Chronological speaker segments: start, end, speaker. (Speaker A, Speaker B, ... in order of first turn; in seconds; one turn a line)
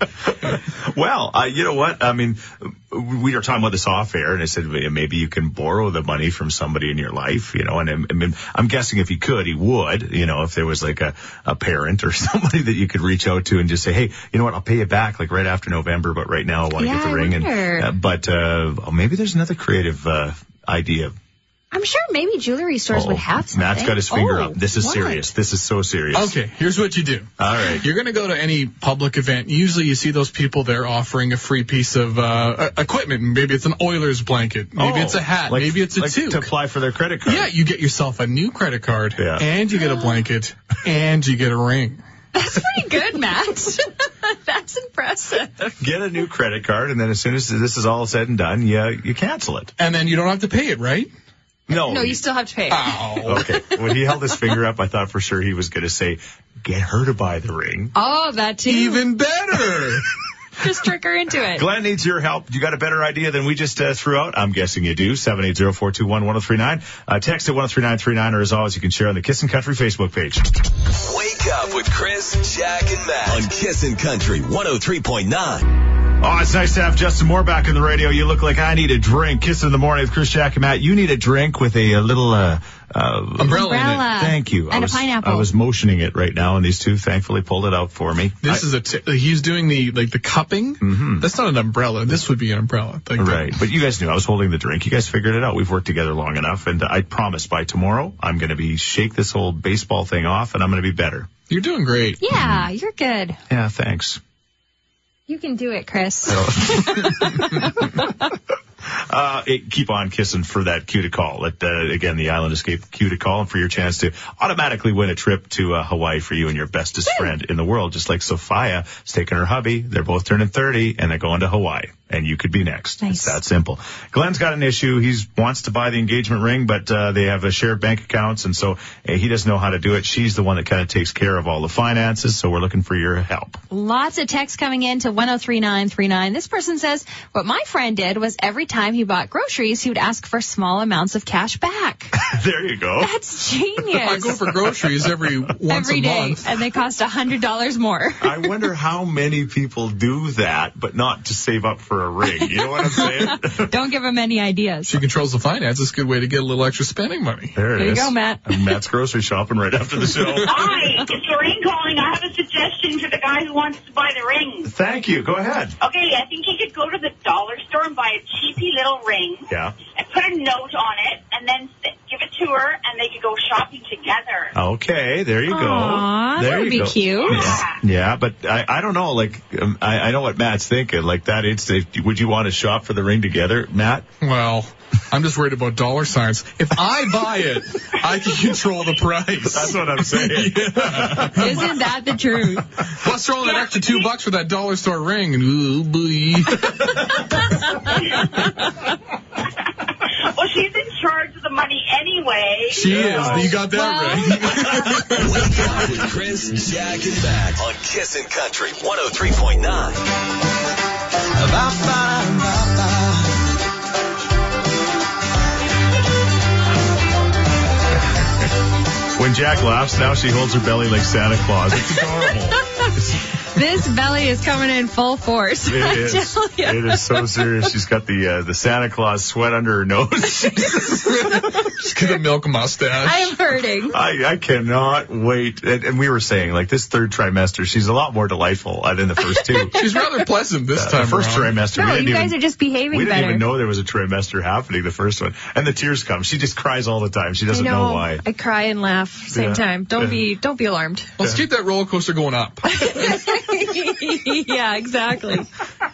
Speaker A: 0.3-21.1
Speaker B: 16.8-17.9
Speaker B: 21.7-25.3
Speaker A: 22.9-26.4
Speaker C: 26.1-36.5
Speaker A: 27.4-27.9
Speaker A: 34.8-37.5
Speaker C: 37.2-42.0
Speaker A: 39.2-39.5
Speaker B: 39.7-40.2
Speaker B: 42.3-45.8
Speaker A: 45.8-49.7
Speaker C: 49.8-51.1
Speaker A: 51.7-52.2
Speaker B: 51.7-53.8
Speaker C: 52.7-53.4
Speaker A: 53.2-57.9
Speaker B: 57.9-59.0
Speaker C: 58.6-60.1
Speaker B: 60.6-61.7
Speaker A: 61.5-70.5
Speaker D: 70.9-75.7
Speaker A: 76.2-88.6
Speaker C: 83.4-84.1
Speaker B: 83.5-85.5
Speaker C: 88.4-93.6
Speaker A: 90.8-91.3
Speaker A: 93.2-101.3
Speaker C: 101.5-102.2
Speaker B: 102.2-103.4
Speaker A: 102.3-102.7
Speaker A: 103.5-104.2
Speaker B: 105.3-108.3
Speaker A: 106.3-107.7
Speaker A: 108.8-133.6
Speaker B: 123.0-123.4
Speaker B: 133.7-142.1
Speaker A: 142.2-143.1
Speaker B: 143.0-144.4
Speaker C: 144.0-146.5
Speaker B: 145.7-148.5
Speaker A: 148.2-153.7
Speaker B: 152.4-155.0
Speaker C: 154.8-157.6
Speaker A: 157.5-160.7
Speaker B: 157.7-158.4
Speaker E: 160.4-164.7
Speaker A: 164.6-165.8
Speaker E: 165.8-174.5
Speaker A: 169.5-169.8
Speaker A: 174.5-184.1
Speaker B: 175.5-177.6
Speaker E: 177.2-177.7
Speaker C: 184.2-191.7
Speaker A: 189.5-191.7
Speaker B: 191.4-192.7
Speaker C: 192.9-197.1
Speaker B: 197.4-197.9
Speaker E: 200.3-203.0
Speaker C: 202.7-205.4
Speaker A: 202.9-203.6
Speaker B: 203.6-204.6
Speaker D: 205.1-210.1
Speaker A: 211.7-212.2
Speaker A: 219.1-223.2
Speaker B: 222.3-223.0
Speaker B: 223.5-227.4
Speaker A: 225.7-231.3
Speaker C: 231.8-233.3
Speaker B: 233.0-234.0
Speaker A: 233.9-239.7
Speaker B: 239.3-240.2
Speaker C: 239.8-241.6
Speaker A: 240.7-242.4
Speaker B: 241.7-243.5
Speaker A: 242.9-248.2
Speaker B: 247.5-251.1
Speaker A: 249.3-250.2
Speaker C: 251.2-252.9
Speaker B: 252.6-255.5